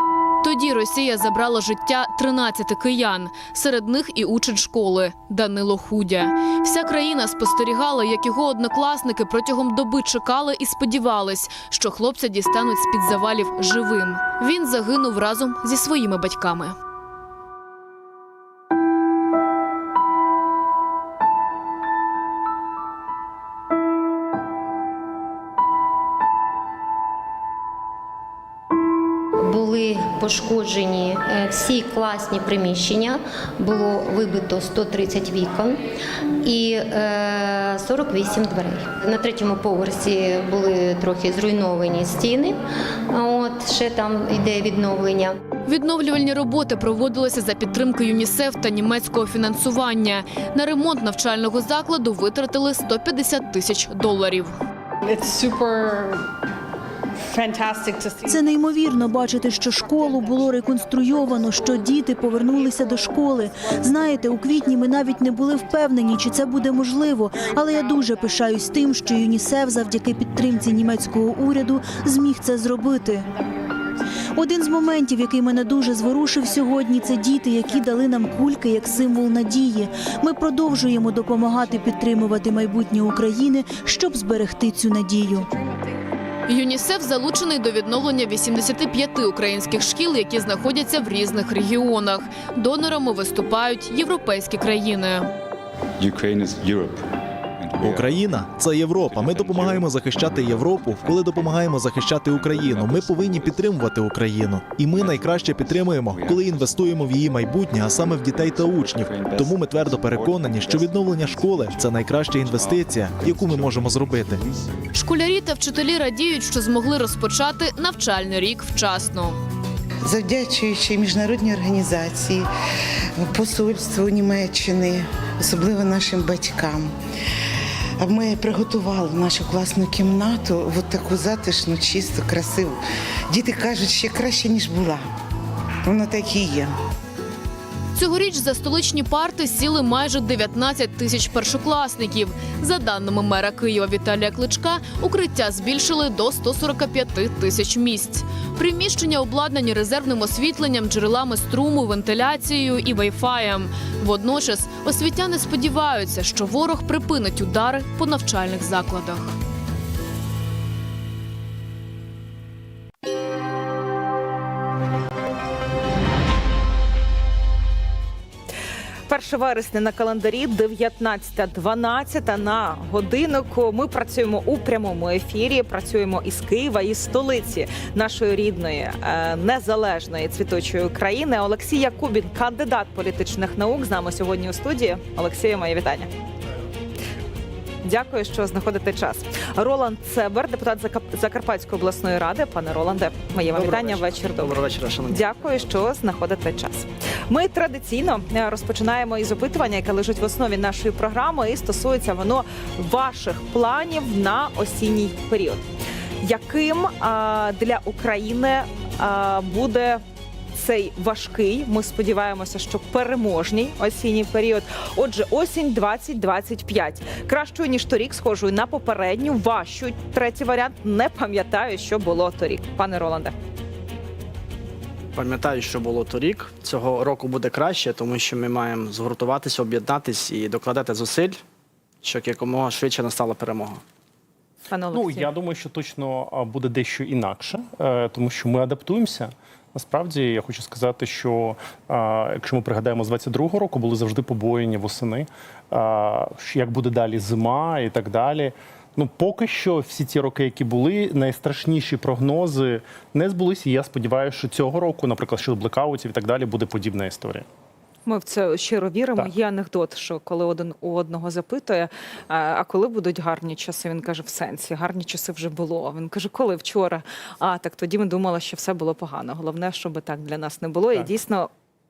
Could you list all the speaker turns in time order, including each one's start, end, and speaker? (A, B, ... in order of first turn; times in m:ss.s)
0:00.4-0:16.8 A
0:29.4-0:35.8 B
0:36.4-0:42.6 B
0:43.1-0:45.4 B
0:45.7-0:54.6 A
0:55.0-0:56.3 C
0:57.2-0:58.5 C
0:58.2-1:13.3 D
1:14.3-1:25.5 D
1:26.5-1:35.3 A
1:36.0-1:37.0 E
1:37.6-1:38.5 E
1:37.8-1:54.4 F
1:39.0-1:41.7 E
1:42.2-1:43.6 E
1:44.9-1:46.6 E
1:47.9-1:54.7 E
1:54.9-1:59.4 A
2:00.0-2:02.5 G
2:03.2-2:06.9 G
2:08.0-2:12.7 G
2:13.3-2:15.0 G
2:15.8-2:16.7 G
2:17.9-2:39.3 A
2:49.1-3:06.1 H
3:07.8-3:25.6 H
3:13.5-3:15.5 I
3:26.2-3:30.0 H
3:30.5-3:43.3 H
3:45.1-3:51.4 I
3:52.0-3:53.8 I
3:54.7-3:55.3 H
3:54.9-4:17.5 J
4:18.0-4:31.5 H